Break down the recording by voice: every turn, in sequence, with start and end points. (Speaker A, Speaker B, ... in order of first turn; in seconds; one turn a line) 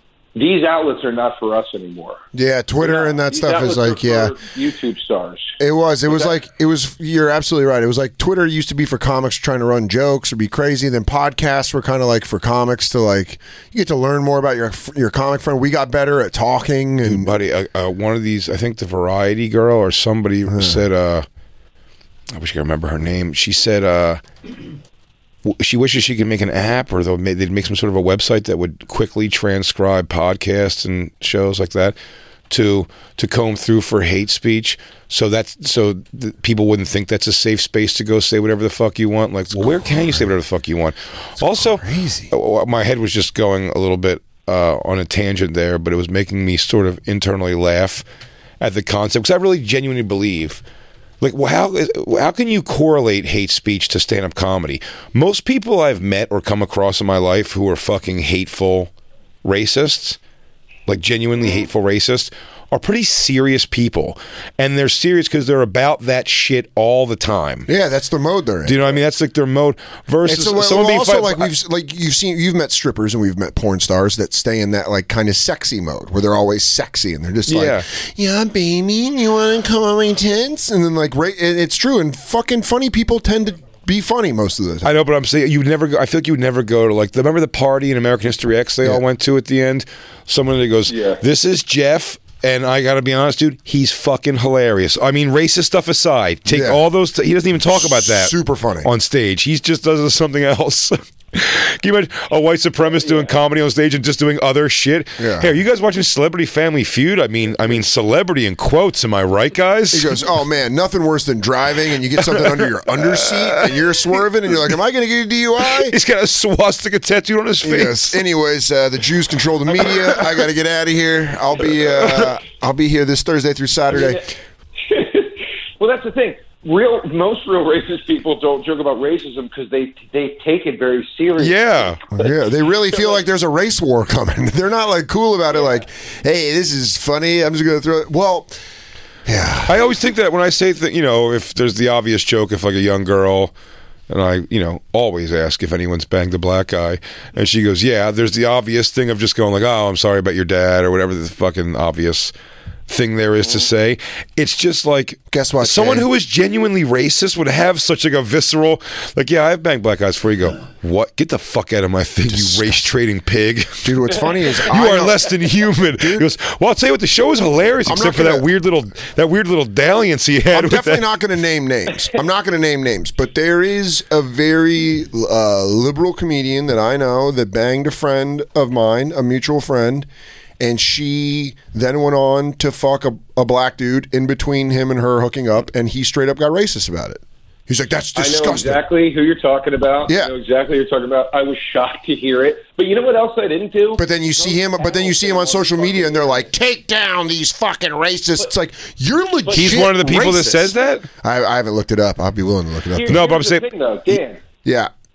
Speaker A: 0.3-2.2
Speaker B: 2.3-4.3
Speaker A: 2.8-5.5
Speaker B: 5.6-17.3
Speaker C: 17.0-21.2
Speaker B: 20.5-20.8
Speaker C: 22.3-24.2
Speaker C: 25.4-32.0
Speaker C: 32.5-48.0
Speaker B: 39.5-40.3
Speaker B: 41.4-42.3
Speaker C: 48.6-50.6
Speaker C: 51.2-58.9
Speaker C: 59.4-60.2
Speaker C: 60.9-67.7
Speaker B: 67.7-69.0
Speaker C: 68.7-71.5
Speaker B: 70.2-84.9
Speaker C: 77.5-77.8
Speaker C: 84.8-98.3
Speaker A: 90.9-91.2
Speaker B: 96.5-96.8
Speaker B: 97.8-98.9
Speaker C: 98.8-110.2
Speaker B: 105.2-105.5
Speaker B: 109.9-115.9
Speaker C: 112.2-113.8
Speaker C: 115.6-118.2
Speaker B: 117.6-124.3
Speaker A: 124.9-132.3
Speaker C: 131.4-132.0
Speaker B: 132.2-138.5
Speaker B: 139.2-139.8
Speaker C: 139.7-143.5
Speaker C: 144.1-152.3
Speaker C: 152.9-171.0
Speaker B: 155.3-156.1
Speaker B: 162.3-162.8
Speaker B: 163.8-165.2
Speaker B: 166.0-166.3
Speaker B: 167.9-168.5
Speaker B: 170.5-180.1
Speaker B: 180.6-188.8
Speaker A: 188.2-196.4
Speaker B: 194.0-203.2
Speaker A: 199.5-199.8
Speaker C: 199.5-201.1
Speaker A: 202.9-204.4
Speaker C: 203.1-203.7
Speaker B: 204.1-204.9